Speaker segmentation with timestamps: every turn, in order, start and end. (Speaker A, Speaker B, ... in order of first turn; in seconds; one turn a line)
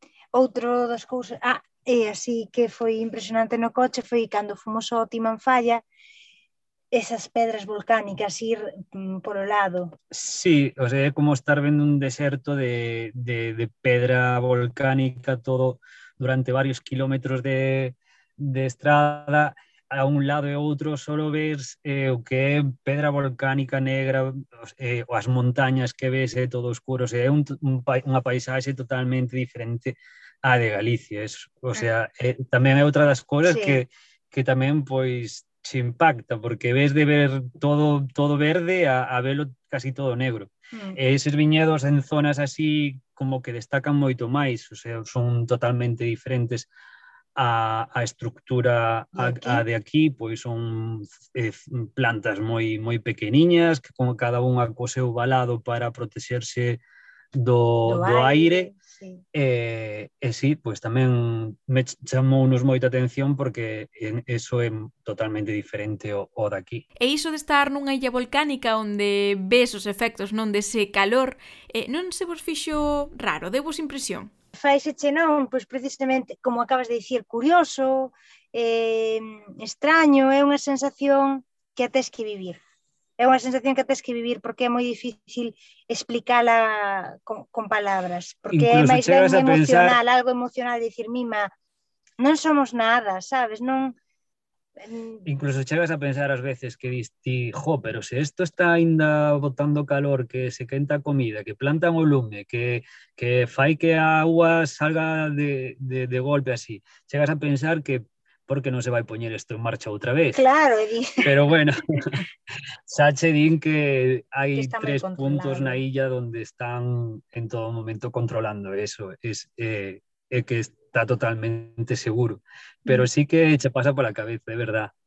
Speaker A: 0.3-5.8
Speaker A: 6.9-9.9
Speaker B: 10.1-46.7
Speaker A: 33.4-33.8
Speaker A: 40.7-41.0
Speaker B: 47.4-56.8
Speaker A: 49.1-49.6
Speaker B: 57.3-58.7
Speaker A: 57.9-59.2
Speaker B: 59.3-66.8
Speaker C: 67.0-74.3
Speaker A: 74.5-82.6
Speaker A: 83.2-91.5
Speaker B: 88.5-90.0
Speaker A: 92.2-94.0
Speaker A: 94.8-95.2
Speaker B: 95.2-110.4
Speaker A: 110.3-111.3
Speaker B: 111.2-112.3
Speaker B: 112.9-124.9
Speaker A: 114.5-115.8